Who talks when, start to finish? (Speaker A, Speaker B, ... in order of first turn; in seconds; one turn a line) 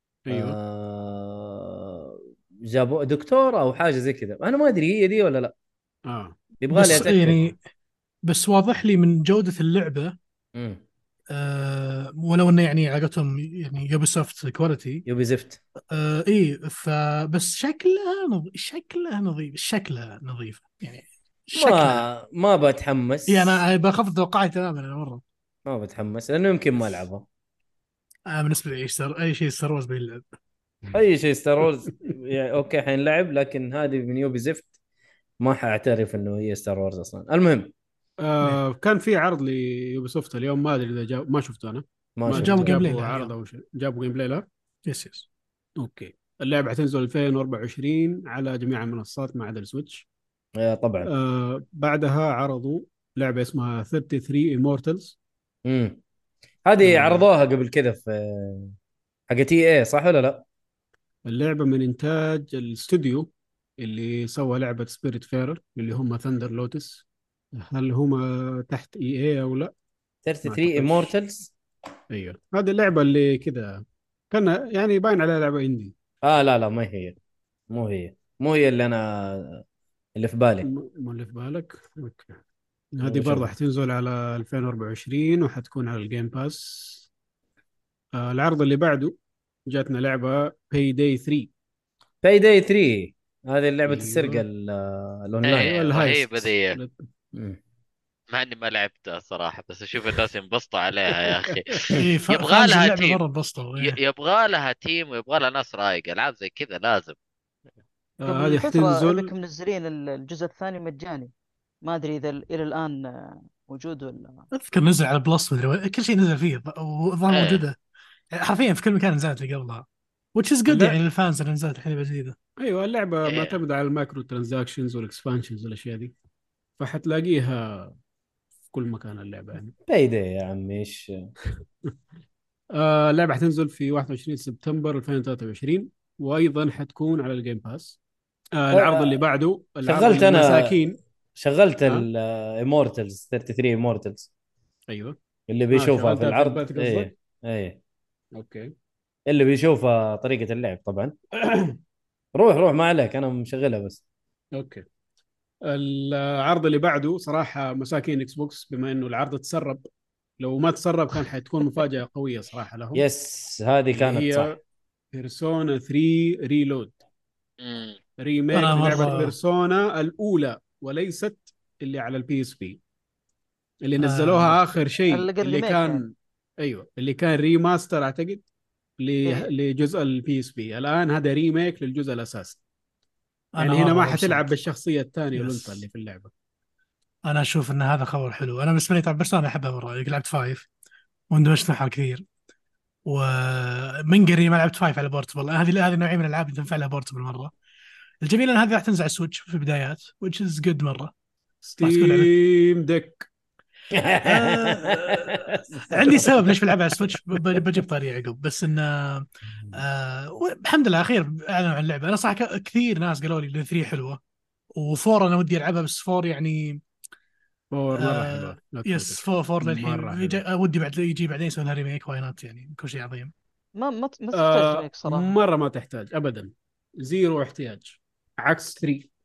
Speaker A: 0.3-0.6
Speaker B: 0.3-5.5
Speaker A: 6.1-6.4
Speaker B: 6.6-7.5
Speaker C: 6.7-7.6
Speaker C: 8.3-10.2
Speaker B: 10.6-10.8
Speaker C: 11.3-15.1
Speaker B: 15.1-15.6
Speaker C: 15.9-22.1
Speaker B: 21.6-23.6
Speaker C: 23.3-25.2
Speaker B: 25.7-27.2
Speaker C: 28.3-30.3
Speaker B: 30.9-34.7
Speaker B: 35.4-37.7
Speaker A: 38.2-44.5
Speaker B: 42.2-42.9
Speaker C: 42.3-43.3
Speaker C: 44.9-45.3
Speaker A: 45.8-50.1
Speaker B: 50.6-51.1
Speaker A: 51.0-55.2
Speaker B: 55.6-56.0
Speaker B: 56.6-58.7
Speaker A: 56.8-57.3
Speaker B: 59.3-60.5
Speaker A: 61.3-67.0
Speaker A: 67.6-69.7
Speaker B: 70.2-71.5
Speaker A: 70.5-71.1
Speaker A: 72.1-75.9
Speaker B: 76.2-77.2
Speaker B: 77.7-79.6
Speaker B: 80.2-80.7
Speaker A: 80.6-82.4
Speaker A: 82.9-87.1
Speaker B: 83.0-83.5
Speaker A: 88.2-89.2
Speaker A: 89.7-91.5
Speaker B: 92.2-95.7
Speaker A: 93.9-94.5
Speaker D: 95.4-96.8
Speaker A: 95.6-97.0
Speaker B: 97.3-97.6
Speaker D: 98.3-103.2
Speaker A: 101.2-101.9
Speaker C: 102.0-104.0
Speaker D: 103.8-107.2
Speaker A: 108.2-109.3
Speaker E: 108.3-111.3
Speaker E: 111.8-114.5
Speaker C: 114.5-117.8
Speaker D: 117.3-117.6
Speaker C: 118.3-122.4
Speaker A: 120.7-121.0
Speaker A: 122.6-126.1
Speaker D: 123.2-123.6
Speaker A: 126.8-128.0
Speaker A: 128.7-129.8
Speaker B: 129.9-131.3
Speaker A: 132.7-138.0
Speaker A: 138.6-141.0
Speaker B: 138.7-139.2
Speaker B: 139.8-140.8
Speaker B: 141.4-144.3
Speaker A: 144.9-145.2
Speaker B: 145.5-147.8
Speaker A: 145.7-147.1
Speaker A: 148.3-148.7
Speaker B: 149.3-151.2
Speaker A: 151.4-151.8
Speaker B: 152.3-154.0
Speaker A: 154.6-154.8
Speaker A: 155.7-159.9
Speaker A: 160.4-163.0
Speaker B: 162.9-164.5
Speaker A: 163.9-164.6
Speaker A: 165.1-167.0
Speaker D: 167.6-168.0
Speaker A: 168.2-172.8
Speaker C: 168.5-169.3
Speaker A: 173.8-178.4
Speaker C: 174.0-174.6
Speaker E: 175.1-176.0
Speaker A: 179.0-182.6
Speaker E: 179.2-179.5
Speaker C: 183.6-184.5
Speaker A: 183.6-186.3
Speaker C: 185.3-185.9
Speaker C: 187.3-190.7
Speaker C: 191.3-192.2
Speaker C: 193.1-197.5
Speaker C: 198.2-201.1
Speaker A: 201.6-203.3
Speaker C: 201.8-202.3
Speaker B: 203.9-206.4
Speaker C: 204.2-214.2
Speaker C: 214.8-216.8
Speaker A: 217.7-220.4
Speaker C: 218.0-223.3
Speaker E: 223.8-225.3
Speaker A: 224.3-229.1